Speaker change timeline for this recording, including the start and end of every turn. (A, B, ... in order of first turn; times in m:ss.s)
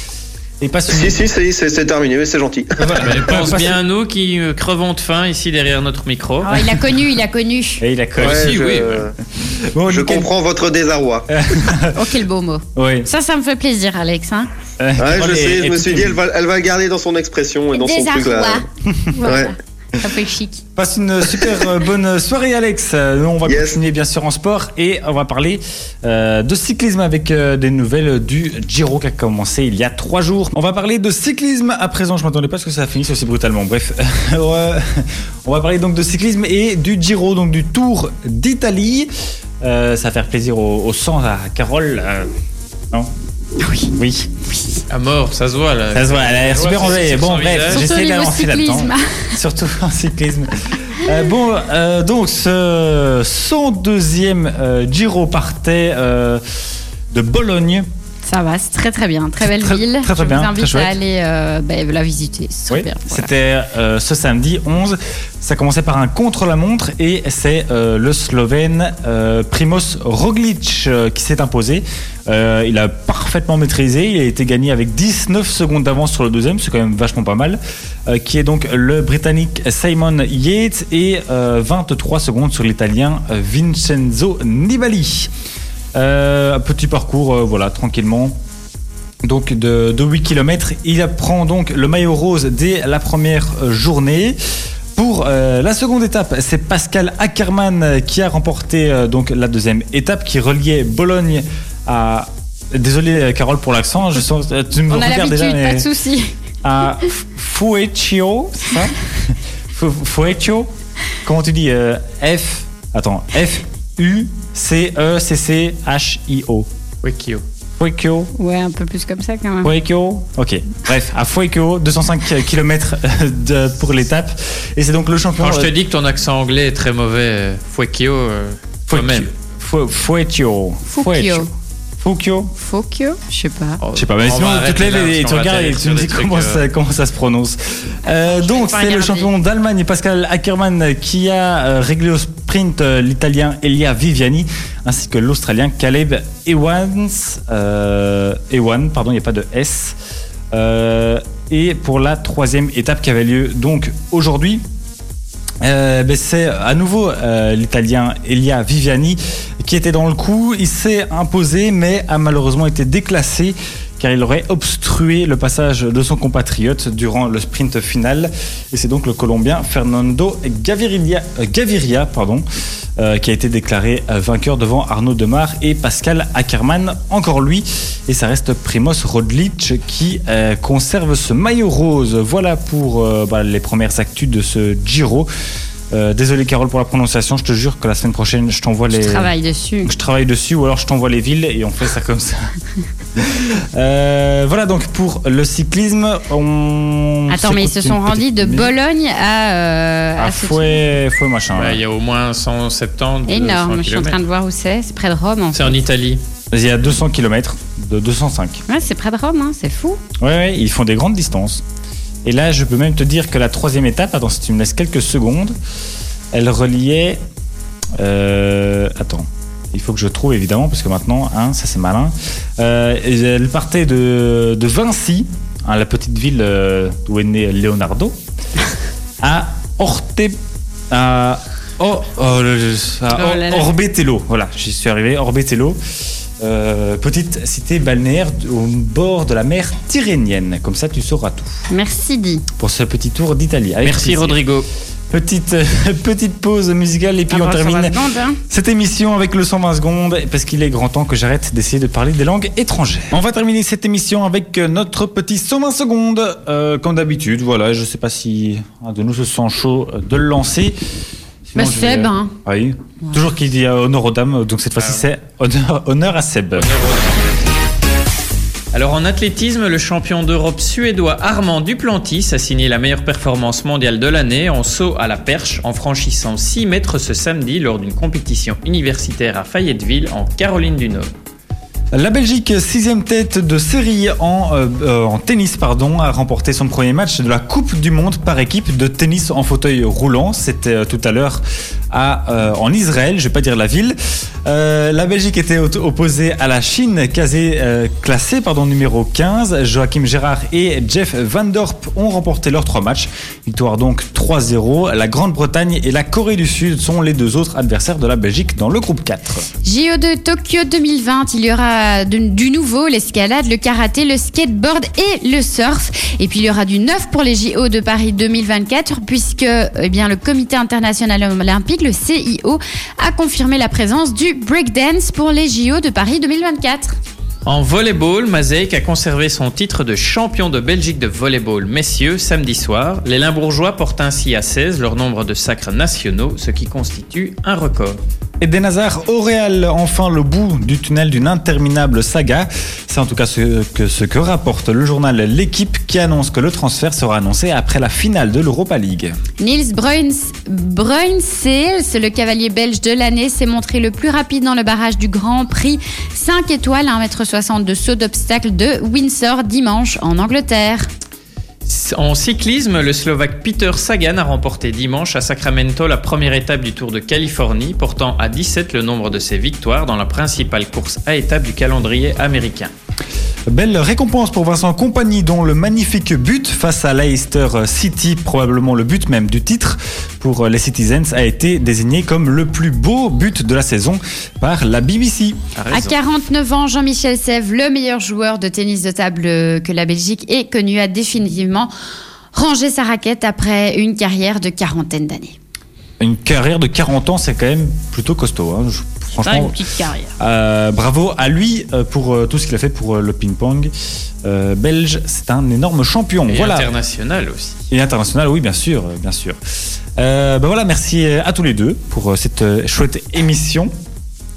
0:00.6-0:01.2 A
0:00.9-0:03.2 B
0:02.8-0:03.8 A
0:03.0-0:06.6 C
0:06.4-0:07.8 D
0:06.5-0:06.8 A
0:07.8-0:08.6 A
0:08.2-0:09.1 C
0:08.2-0:09.1 B
0:09.4-0:10.3 A
0:09.9-0:11.3 B
0:11.3-0:12.0 A
0:11.9-0:14.5 D
0:12.8-0:13.1 A
0:14.8-0:16.2 A
0:15.0-0:18.7 B
0:17.7-0:20.6 D
0:19.2-0:19.5 B
0:20.8-0:39.1 A
0:23.5-0:23.8 B
0:39.6-0:42.3 A
0:43.6-0:43.9 D
0:43.9-0:44.3 A
0:44.5-0:44.8 D
0:44.9-0:47.8 C
0:46.0-0:56.4 A
0:47.7-0:49.4 D
0:57.1-0:57.9 A
0:58.3-1:03.3 D
0:59.4-1:01.0 A
1:02.7-1:25.3 A
1:26.0-1:28.4 A
1:29.2-1:34.4 A
1:35.0-1:45.9 A
1:44.9-1:46.4 D
1:46.6-1:50.7 A
1:51.2-1:56.7 A
1:57.0-1:57.4 C
1:57.8-1:58.3 A
1:58.4-1:59.7 D
1:59.6-2:05.7 A
2:05.4-2:09.3 C
2:08.9-2:11.5 A
2:10.9-2:11.5 D
2:12.0-2:12.6 A
2:12.6-2:13.8 D
2:13.8-2:16.6 C
2:14.0-2:30.0 A
2:18.0-2:19.3 D
2:30.5-2:34.6 A
2:35.6-2:52.4 A
2:53.0-3:05.3 A
3:05.9-3:09.3 A
3:08.9-3:09.9 D
3:09.8-3:12.6 A
3:13.2-3:18.7 A
3:17.3-3:20.8 D
3:20.2-3:21.8 A
3:21.6-3:24.2 C
3:23.3-3:25.8 D
3:25.5-3:26.2 C
3:26.5-3:28.7 A
3:28.7-3:30.0 D
3:30.2-3:31.6 A
3:32.2-3:35.6 A
3:36.3-3:37.2 A
3:38.0-3:48.2 A
3:49.2-3:50.4 A
3:50.9-3:55.8 A
3:53.1-3:53.7 D
3:56.4-4:01.6 A
4:01.7-4:02.5 D
4:02.6-4:04.4 A
4:03.8-4:04.7 C
4:05.1-4:08.0 A
4:07.3-4:08.4 D
4:08.5-4:20.8 A
4:21.5-4:26.7 A
4:21.6-4:22.3 D
4:24.8-4:25.0 C
4:26.6-4:27.2 C
4:28.7-4:41.1 C
4:41.9-5:09.5 A
5:09.6-5:27.0 D
5:27.5-5:38.0 C
5:38.4-5:49.2 A
5:49.4-6:00.9 D
6:01.7-6:12.7 C
6:13.5-6:25.4 A
6:25.6-6:26.0 C
6:25.7-6:31.7 D
6:32.3-6:35.4 D
6:36.0-6:39.6 A
6:39.2-6:40.1 D
6:40.2-6:43.7 A
6:44.2-6:46.7 A
6:46.3-6:47.6 C
6:47.7-6:49.4 A
6:50.0-6:53.7 A